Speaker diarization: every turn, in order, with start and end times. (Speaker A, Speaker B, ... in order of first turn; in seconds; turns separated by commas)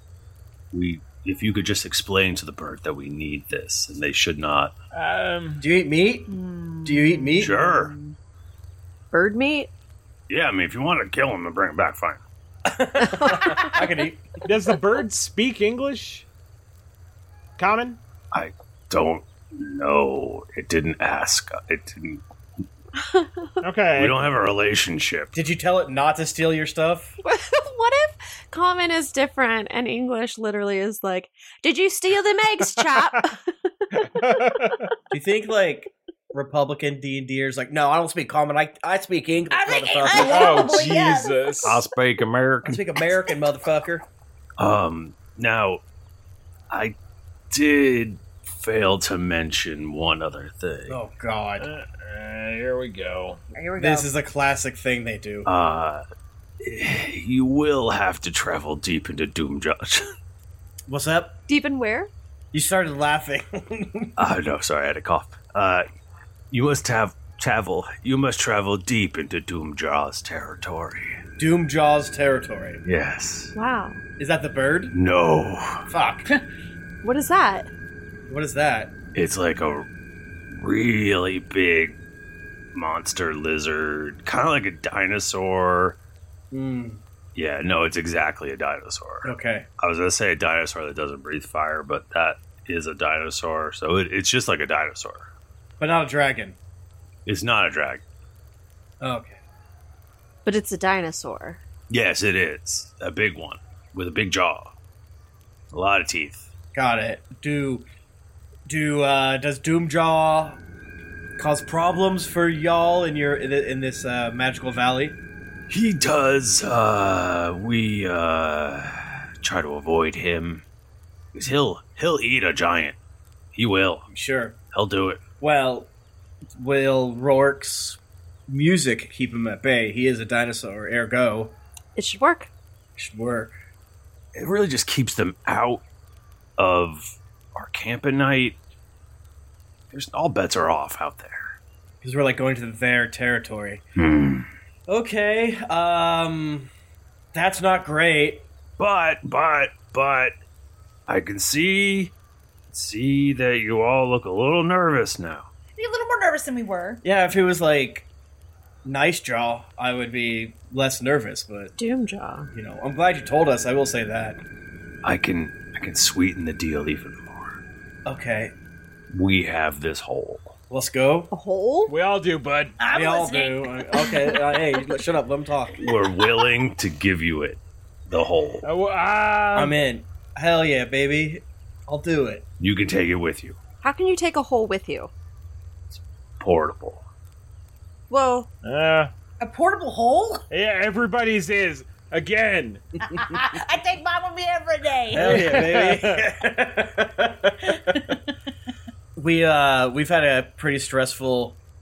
Speaker A: 0.7-4.7, Speaker B: 4.9-5.6, Speaker C: 5.6-6.3, Speaker D: 6.3-8.1, Speaker C: 6.8-7.7, Speaker A: 7.4-7.9, Speaker E: 9.1-9.7, Speaker A: 10.3-12.2, Speaker C: 12.7-14.4, Speaker E: 13.2-13.7, Speaker B: 14.4-16.2, Speaker B: 17.6-18.0, Speaker A: 18.3-22.2, Speaker E: 23.0-23.5, Speaker B: 23.6-24.2, Speaker A: 23.9-25.3, Speaker C: 25.3-27.1, Speaker E: 27.2-33.4, Speaker B: 32.8-33.1, Speaker B: 34.0-34.9, Speaker C: 35.1-40.8, Speaker D: 39.5-41.5, Speaker B: 40.2-41.8, Speaker A: 41.6-42.9, Speaker C: 42.6-44.0, Speaker A: 44.6-45.8, Speaker A: 46.7-47.0, Speaker A: 47.5-51.0, Speaker C: 50.9-51.7, Speaker B: 51.6-53.4, Speaker D: 53.5-54.1, Speaker C: 53.8-55.5, Speaker A: 55.4-56.0, Speaker A: 56.6-60.1, Speaker C: 60.9-61.4, Speaker E: 61.5-62.1, Speaker C: 62.5-64.1, Speaker A: 64.2-65.8, Speaker A: 66.5-71.0, Speaker C: 71.4-72.8, Speaker A: 72.8-73.5, Speaker E: 73.5-74.0, Speaker C: 74.2-74.9, Speaker A: 74.9-75.8, Speaker C: 75.9-76.2, Speaker E: 77.0-77.7, Speaker C: 78.3-78.9, Speaker A: 79.1-79.9, Speaker A: 80.5-82.0, Speaker A: 82.7-86.0, Speaker C: 86.5-87.0, Speaker A: 87.3-95.3, Speaker C: 89.2-89.7, Speaker C: 95.8-96.6, Speaker A: 97.2-98.0, Speaker C: 99.0-99.4, Speaker E: 100.4-101.6, Speaker A: 101.9-104.7, Speaker A: 105.7-106.5, Speaker C: 106.7-107.8, Speaker C: 108.7-110.6, Speaker C: 111.4-115.2, Speaker A: 115.7-120.6, Speaker A: 121.3-123.0, Speaker A: 123.5-124.1, Speaker C: 124.1-124.6, Speaker A: 124.7-125.2, Speaker C: 125.4-125.9, Speaker C: 126.5-131.6, Speaker E: 131.9-132.5, Speaker C: 132.9-133.5, Speaker A: 134.3-135.8, Speaker A: 136.6-138.6, Speaker A: 139.9-141.6, Speaker C: 142.0-143.8, Speaker A: 143.9-144.5, Speaker C: 144.9-146.7, Speaker C: 147.3-148.4, Speaker A: 148.8-150.3, Speaker A: 151.1-152.1, Speaker A: 152.7-155.5, Speaker D: 155.8-157.0, Speaker C: 157.0-158.1, Speaker C: 158.8-161.7, Speaker E: 161.8-162.5, Speaker C: 162.5-164.4, Speaker A: 165.0-167.6, Speaker C: 168.1-168.5, Speaker A: 169.1-170.6, Speaker C: 170.7-171.3, Speaker E: 171.3-171.9, Speaker B: 171.9-172.8, Speaker D: 172.8-174.1, Speaker C: 172.9-175.8, Speaker A: 175.8-178.7, Speaker B: 178.6-179.8, Speaker C: 179.5-182.4, Speaker A: 182.6-183.6, Speaker E: 183.8-185.1, Speaker A: 185.9-187.0, Speaker E: 188.1-188.5, Speaker B: 188.6-189.1, Speaker D: 189.4-190.4, Speaker B: 190.5-192.8, Speaker D: 193.1-195.4, Speaker C: 195.1-198.0, Speaker B: 195.1-196.2, Speaker C: 199.2-201.6